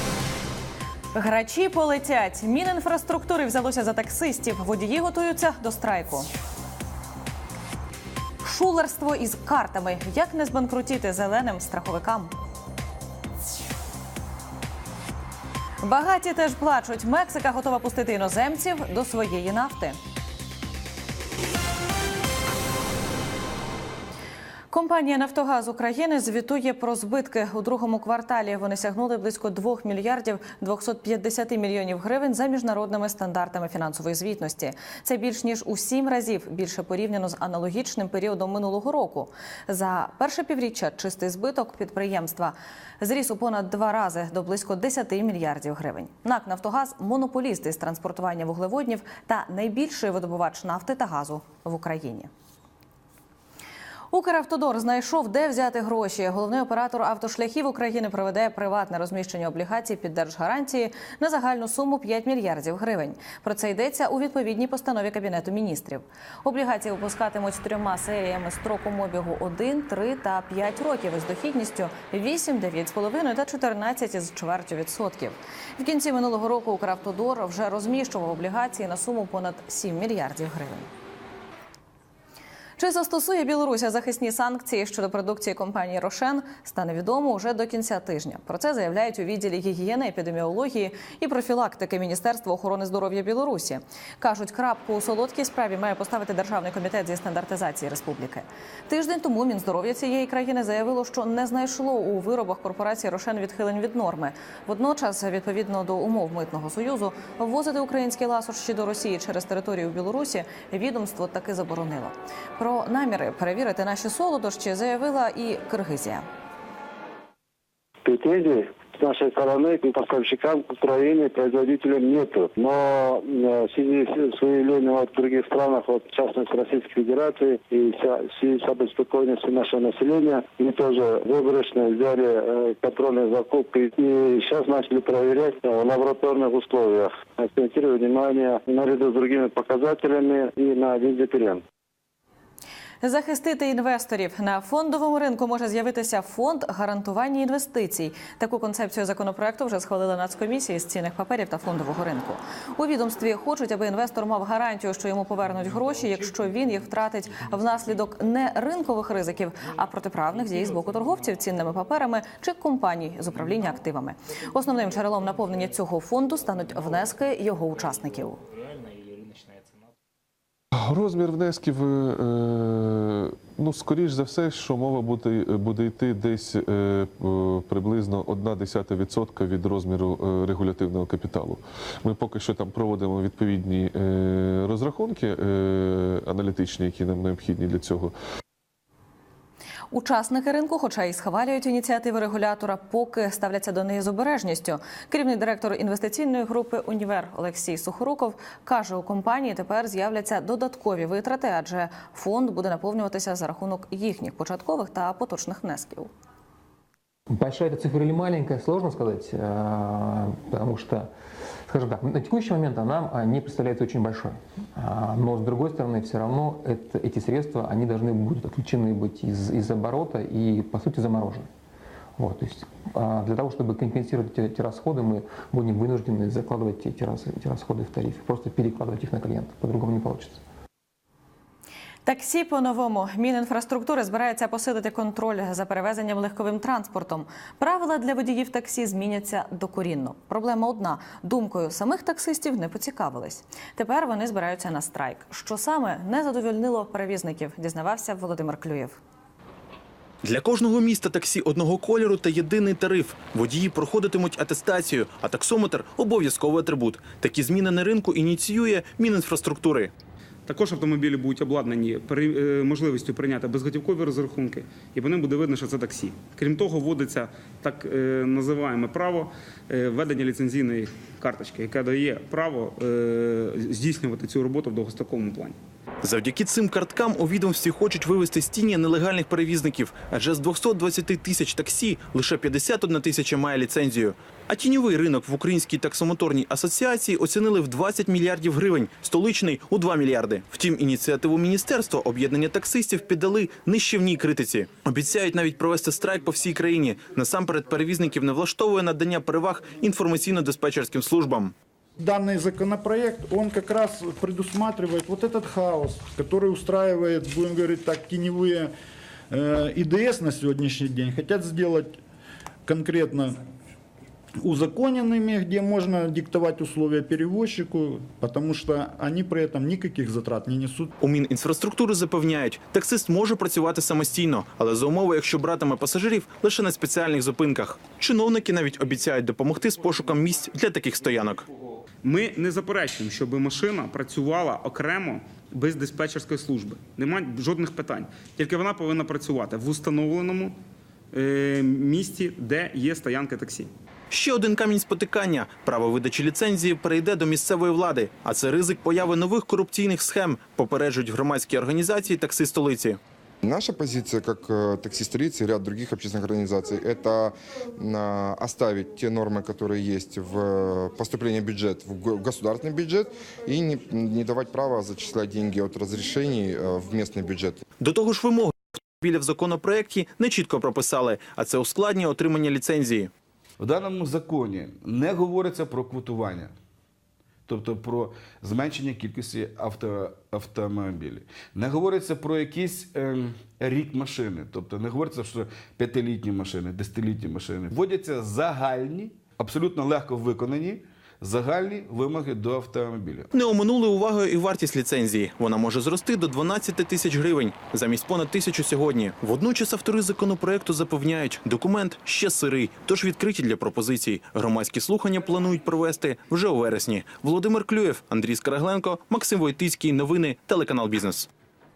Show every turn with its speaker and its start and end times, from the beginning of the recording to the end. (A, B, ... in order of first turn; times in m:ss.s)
0:01.1-0:06.3 A
0:08.4-0:12.3 A
0:15.8-0:20.0 A
0:24.7-0:52.3 A
0:54.1-1:20.9 A
1:22.8-1:56.2 A
1:58.0-2:21.6 B
2:23.0-2:48.4 A
2:50.7-3:08.2 C
3:09.9-3:26.1 A
3:27.3-3:31.1 D
3:31.7-3:41.5 D
3:42.2-3:50.4 D
3:52.0-4:09.0 A
4:10.2-4:19.9 E
4:20.5-4:35.6 F
4:36.0-5:01.5 E
5:02.0-5:08.7 G
5:09.3-5:12.0 G
5:12.6-5:13.4 G
5:14.4-5:20.9 G
5:21.0-5:31.5 E
5:32.0-5:40.6 F
5:41.1-5:43.7 F
5:44.1-5:53.0 E
5:53.4-6:07.6 H
6:07.8-6:13.1 E
6:13.6-6:16.5 I
6:17.5-6:33.3 I
6:33.3-6:51.3 E